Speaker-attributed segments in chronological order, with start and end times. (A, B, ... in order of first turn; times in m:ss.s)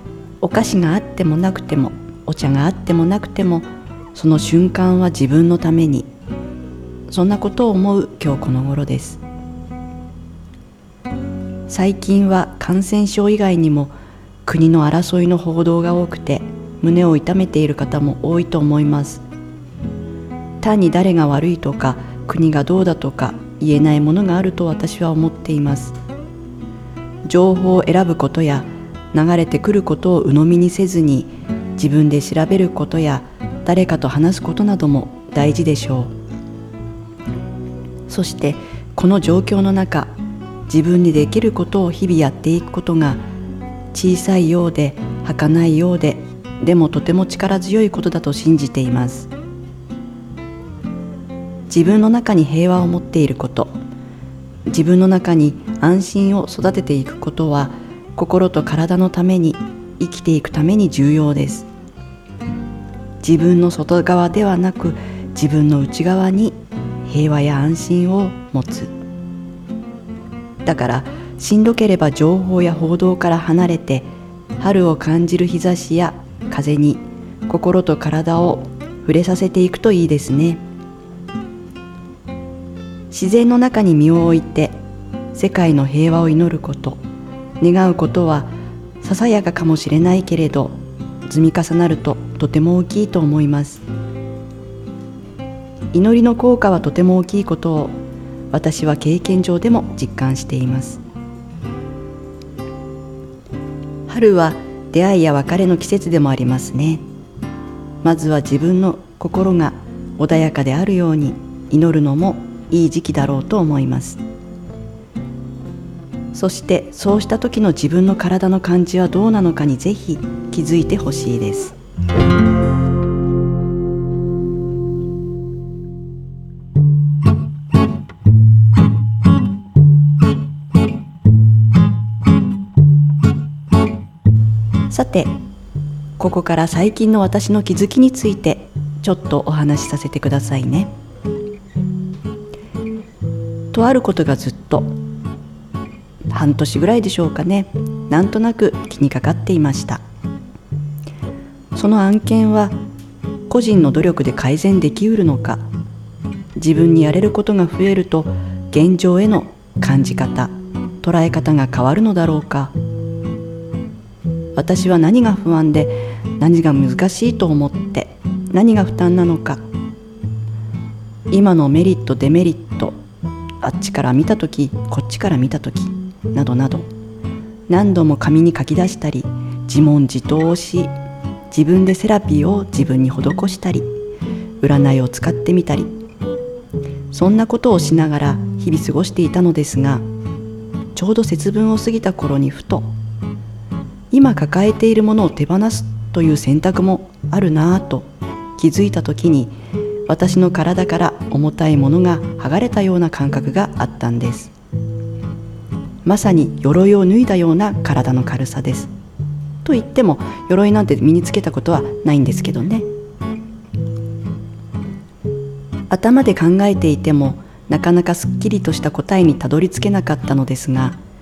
0:00.4-0:06.1 A
0:07.1-0:09.2 A
0:11.7-0:19.2 A
0:20.6-0:26.0 A
0:27.3-0:36.2 A
0:38.1-0:40.2 A
0:40.7-0:43.2 A
0:43.9-0:49.3 A
0:51.7-0:53.8 A
0:54.7-1:01.7 A
1:03.2-1:08.9 A
1:10.6-1:20.6 A
1:23.1-1:24.8 A
1:25.3-1:27.0 A
1:27.6-1:33.8 A
1:35.9-1:38.0 A
1:38.5-1:41.0 A
1:44.1-1:47.1 A
1:48.0-1:54.2 A
1:56.3-2:01.8 A
2:14.9-2:15.3 A
2:16.2-2:20.9 A
2:23.7-2:25.0 A
2:26.3-2:30.0 A
2:31.8-2:32.8 A
2:33.5-2:35.7 A
2:36.6-2:42.8 A
2:44.6-2:49.6 A
2:51.3-2:53.0 A
2:53.6-2:56.9 A
2:57.7-3:01.0 A
3:01.5-3:03.9 A
3:04.6-3:06.0 A
3:07.1-3:10.1 A
3:11.0-3:12.9 A
3:14.1-3:19.6 A
3:20.1-3:24.5 A
3:26.0-3:28.9 A
3:29.6-3:32.9 A
3:35.9-3:41.0 A